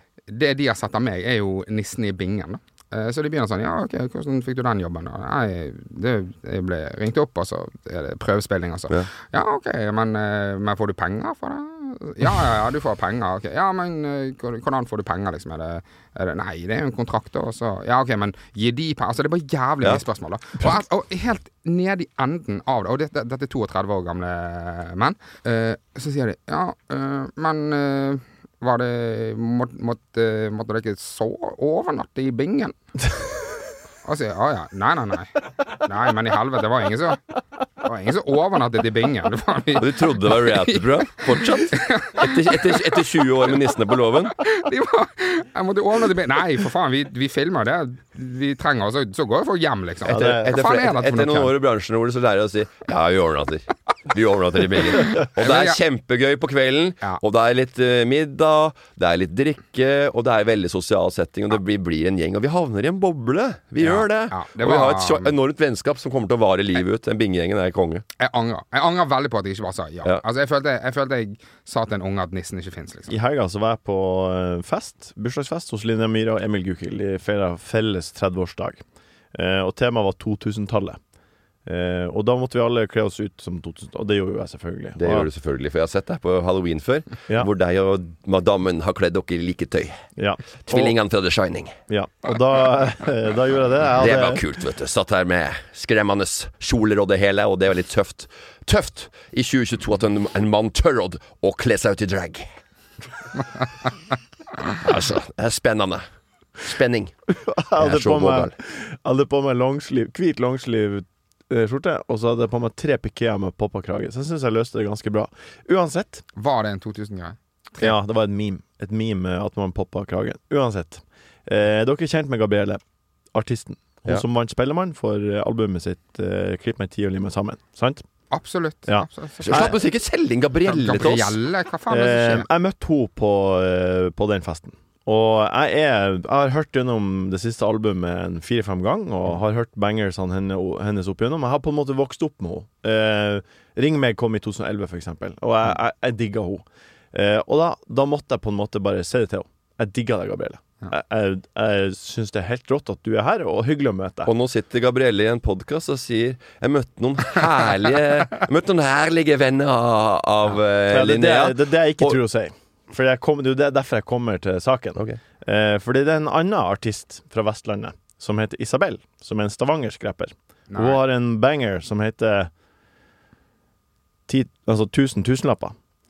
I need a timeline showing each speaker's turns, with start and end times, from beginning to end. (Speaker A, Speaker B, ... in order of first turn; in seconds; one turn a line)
Speaker A: 0.3-32.7
Speaker A: 34.0-37.2
Speaker A: 37.8-42.8
Speaker B: 39.8-44.3
Speaker A: 44.4-51.5
Speaker C: 50.0-50.5
Speaker B: 50.1-68.0
Speaker A: 55.2-55.8
Speaker A: 63.8-65.3
Speaker A: 68.2-73.1
Speaker C: 73.1-78.8
Speaker C: 79.3-81.0
Speaker C: 81.7-85.3
Speaker B: 85.0-90.0
Speaker C: 90.2-91.0
Speaker B: 90.6-91.8
Speaker C: 91.9-94.4
Speaker B: 94.0-102.5
Speaker B: 104.7-106.0
Speaker B: 106.6-107.1
Speaker C: 107.3-116.2
Speaker B: 107.8-108.5
Speaker A: 116.3-117.9
Speaker C: 117.8-122.8
Speaker C: 123.3-128.0
Speaker A: 128.3-129.8
Speaker C: 128.8-129.8
Speaker B: 129.4-131.4
Speaker A: 130.6-132.5
Speaker C: 131.9-154.3
Speaker B: 154.2-162.2
Speaker C: 160.9-172.5
Speaker A: 170.7-171.0
Speaker C: 174.3-175.7